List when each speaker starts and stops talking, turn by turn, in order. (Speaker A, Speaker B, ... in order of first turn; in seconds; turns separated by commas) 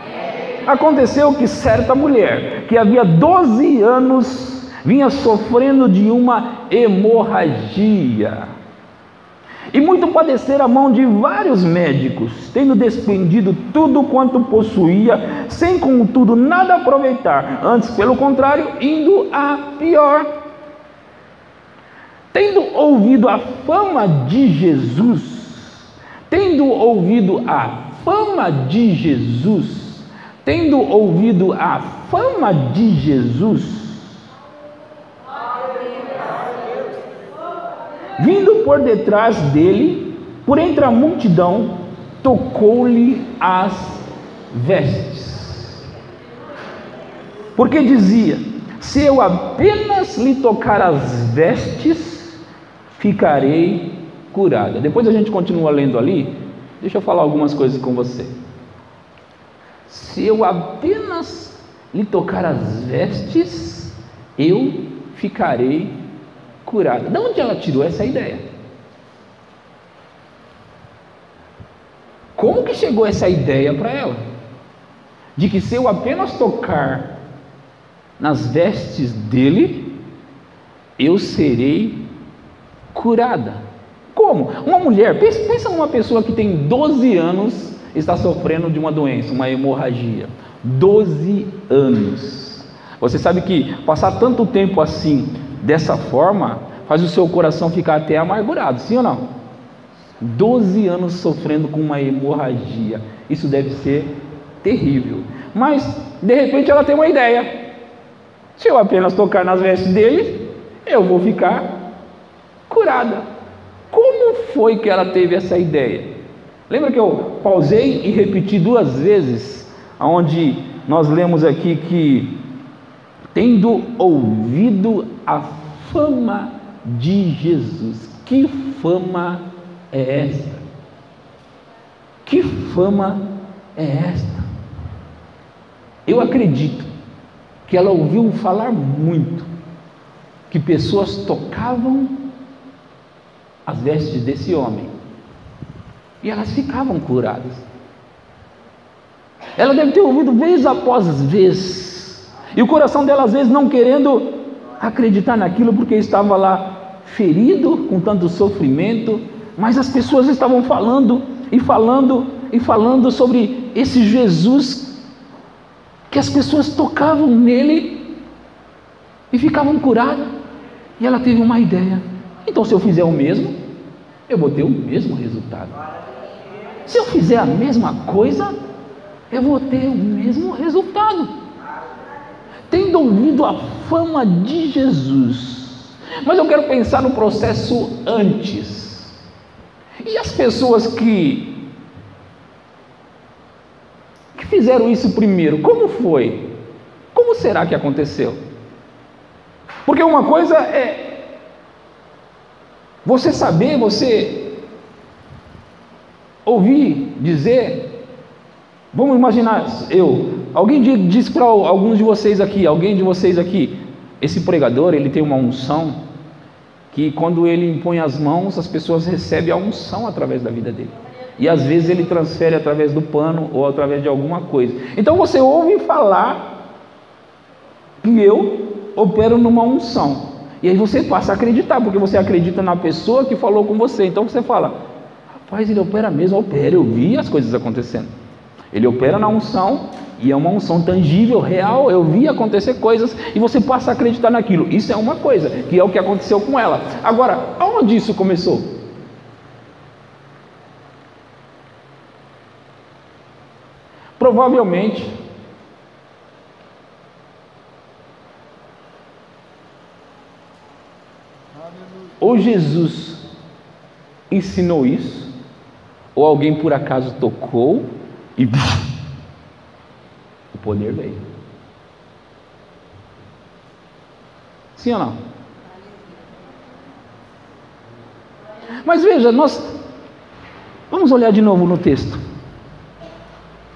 Speaker A: 0.6-8.5, Speaker A: 9.7-20.3, Speaker A: 22.3-25.8, Speaker A: 26.3-34.1, Speaker A: 38.2-45.8, Speaker A: 47.6-52.4, Speaker A: 52.9-58.3, Speaker A: 59.9-66.0, Speaker A: 66.6-68.4, Speaker A: 72.4-74.2, Speaker A: 75.3-77.1, Speaker A: 78.2-80.0, Speaker A: 81.0-82.0, Speaker A: 82.9-99.3, Speaker A: 100.2-107.6, Speaker A: 108.6-111.7, Speaker A: 112.7-113.2, Speaker A: 113.9-116.2, Speaker A: 116.7-122.4, Speaker A: 123.3-130.7, Speaker A: 132.2-134.4, Speaker A: 136.1-136.9, Speaker A: 137.7-139.5, Speaker A: 140.5-142.2, Speaker A: 143.7-144.9, Speaker A: 146.2-147.6, Speaker A: 149.6-165.0, Speaker A: 166.1-168.1, Speaker A: 169.3-170.3, Speaker A: 171.0-173.5, Speaker A: 174.3-175.7, Speaker A: 176.8-178.5, Speaker A: 179.3-181.3, Speaker A: 182.7-189.1, Speaker A: 190.0-191.6, Speaker A: 194.3-196.5, Speaker A: 197.1-198.4, Speaker A: 199.8-201.2, Speaker A: 203.0-204.6, Speaker A: 206.4-207.9, Speaker A: 208.9-216.0, Speaker A: 216.9-226.5, Speaker A: 228.0-234.8, Speaker A: 235.4-238.1, Speaker A: 238.7-248.8, Speaker A: 254.2-255.1, Speaker A: 262.2-263.2, Speaker A: 264.3-265.3, Speaker A: 266.1-268.8, Speaker A: 270.5-271.2, Speaker A: 274.8-275.2, Speaker A: 278.8-279.7, Speaker A: 280.9-282.2